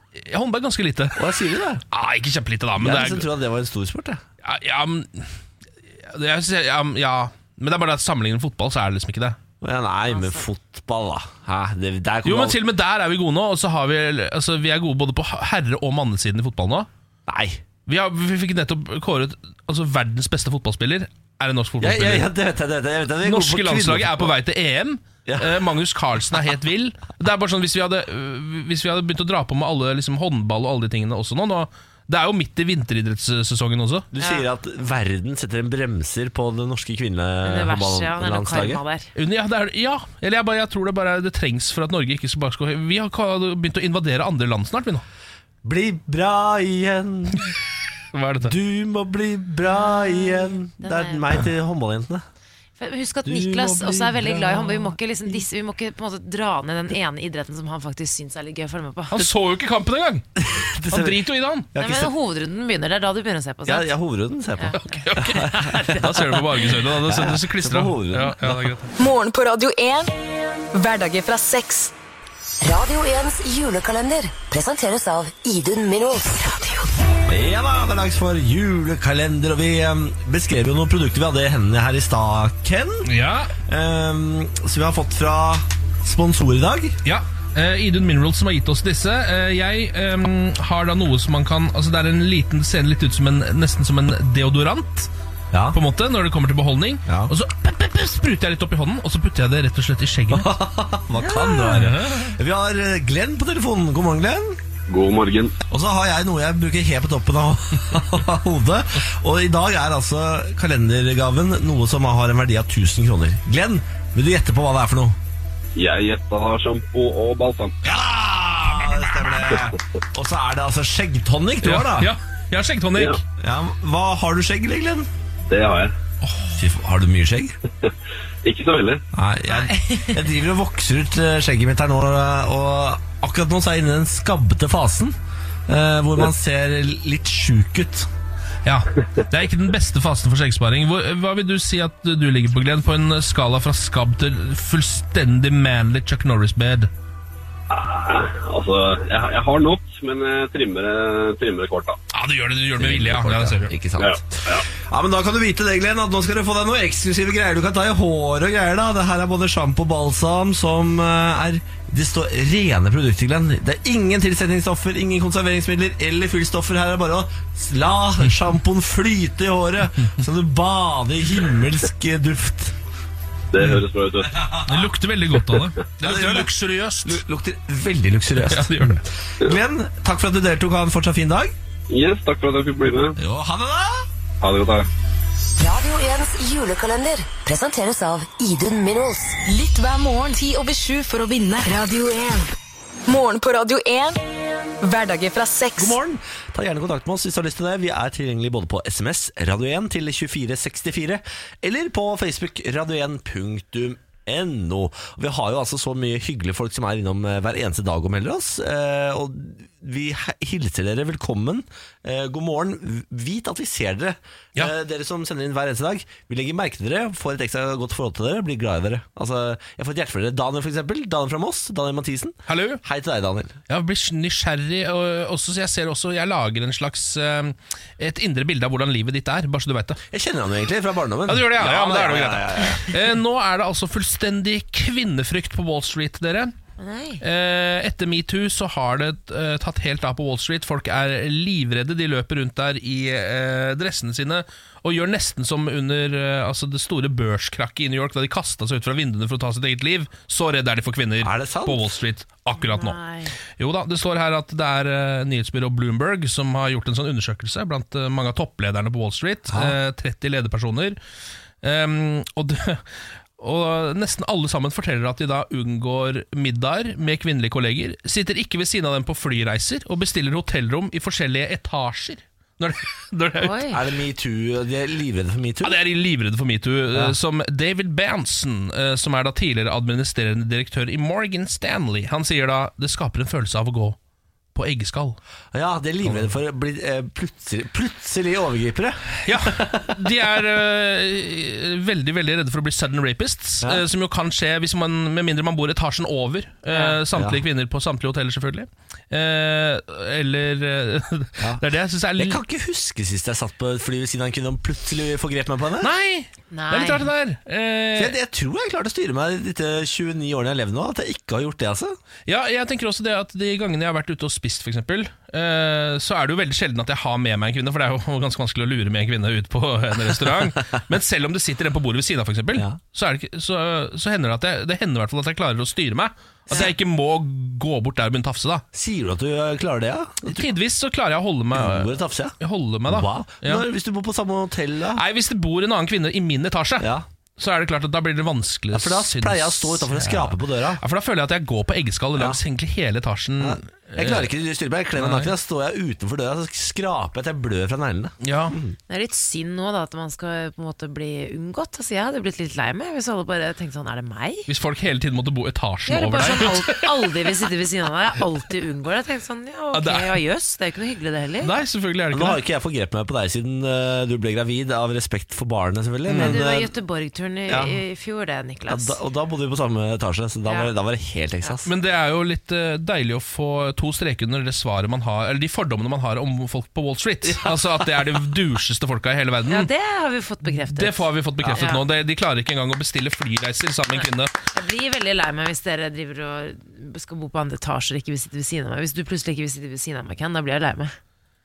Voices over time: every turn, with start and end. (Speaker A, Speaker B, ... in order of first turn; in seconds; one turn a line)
Speaker A: 0.1-1.2
Speaker B: 1.2-1.8
Speaker A: 1.9-3.3
Speaker B: 2.8-4.2
Speaker A: 4.4-5.3
Speaker A: 5.9-9.4
Speaker B: 9.6-12.6
Speaker C: 10.1-10.4
Speaker A: 12.2-16.9
Speaker B: 17.3-17.6
Speaker A: 17.9-22.3
Speaker B: 21.8-24.3
Speaker A: 23.2-34.1
Speaker B: 25.2-25.5
Speaker B: 34.1-38.8
Speaker C: 34.2-34.4
Speaker C: 37.4-39.1
Speaker A: 39.1-45.0
Speaker B: 45.6-47.5
Speaker A: 48.1-48.5
Speaker B: 48.4-52.2
Speaker C: 49.8-51.4
Speaker C: 52.8-59.3
Speaker B: 53.2-54.9
Speaker A: 59.1-60.3
Speaker B: 60.4-61.2
Speaker A: 60.9-61.7
Speaker B: 61.7-62.1
Speaker C: 61.8-63.9
Speaker B: 63.6-66.1
Speaker C: 64.6-65.1
Speaker A: 64.9-68.9
Speaker B: 67.0-68.7
Speaker D: 69.0-70.1
Speaker D: 70.7-71.9
Speaker E: 72.6-76.5
Speaker B: 77.2-83.1
Speaker A: 83.0-83.5
Speaker B: 83.7-87.0
Speaker A: 87.0-95.1
Speaker B: 95.5-95.8
Speaker A: 95.7-100.5
Speaker B: 97.1-97.3
Speaker B: 100.3-104.6
Speaker A: 101.5-102.3
Speaker F: 104.9-105.5
Speaker B: 105.7-115.2
Speaker F: 115.8-117.8
Speaker B: 117.8-122.1
Speaker A: 118.8-119.3
Speaker A: 121.6-123.2
Speaker B: 123.4-125.1
Speaker F: 125.5-125.9
Speaker A: 126.2-126.6
Speaker B: 126.6-127.5
Speaker F: 128.4-129.0
Speaker B: 129.1-135.2
Speaker C: 129.5-130.2
Speaker B: 135.7-138.1
Speaker A: 138.6-146.9
Speaker F: 147.7-152.0
Speaker A: 152.1-153.7
Speaker B: 152.8-172.7
Speaker F: 154.0-154.6
Speaker F: 173.5-174.4
Speaker A: 174.6-177.2
Speaker B: 176.0-176.5
Speaker B: 177.0-181.5
Speaker A: 178.3-179.0
Speaker F: 181.9-183.2
Speaker B: 183.2-184.1
Speaker F: 184.4-184.9
Speaker E: 185.6-189.4
Speaker D: 189.5-192.5
Speaker D: 193.1-194.2
Speaker D: 194.8-196.0
Speaker B: 195.8-223.6
Speaker A: 222.5-222.8
Speaker A: 223.7-230.0
Speaker B: 230.1-232.9
Speaker A: 231.3-236.5
Speaker C: 236.8-237.2
Speaker A: 237.2-253.0
Speaker B: 251.2-251.9
Speaker C: 252.5-253.3
Speaker A: 253.6-261.0
Speaker B: 259.5-259.7
Speaker A: 261.6-262.8
Speaker A: 263.4-273.7
Speaker C: 273.4-273.8
Speaker B: 273.7-275.8
Speaker A: 275.6-284.0
Speaker A: 284.5-285.2
Speaker B: 285.5-290.0
Speaker A: 286.0-286.3
Speaker A: 289.2-302.4
Speaker C: 296.7-297.0
Speaker B: 297.1-297.4
Speaker B: 302.1-305.9
Speaker A: 305.8-308.1
Speaker C: 306.5-307.1
Speaker B: 307.9-311.9
Speaker A: 312.2-328.6
Speaker B: 328.7-330.5
Speaker A: 330.2-333.6
Speaker B: 331.5-332.4
Speaker B: 332.9-335.0
Speaker A: 334.9-344.3
Speaker B: 336.8-337.0
Speaker B: 338.7-340.8
Speaker B: 343.4-348.8
Speaker A: 344.9-345.3
Speaker A: 348.2-348.6
Speaker C: 348.9-354.5
Speaker A: 354.5-357.3
Speaker C: 355.9-361.5
Speaker A: 359.7-360.2
Speaker A: 361.4-362.4
Speaker B: 362.1-366.7
Speaker A: 366.1-366.4
Speaker C: 366.1-369.0
Speaker B: 367.5-367.8
Speaker B: 368.7-371.7
Speaker C: 370.4-370.7
Speaker A: 371.6-379.7
Speaker B: 377.2-377.8
Speaker C: 379.5-381.8
Speaker A: 380.6-384.3
Speaker C: 384.5-390.9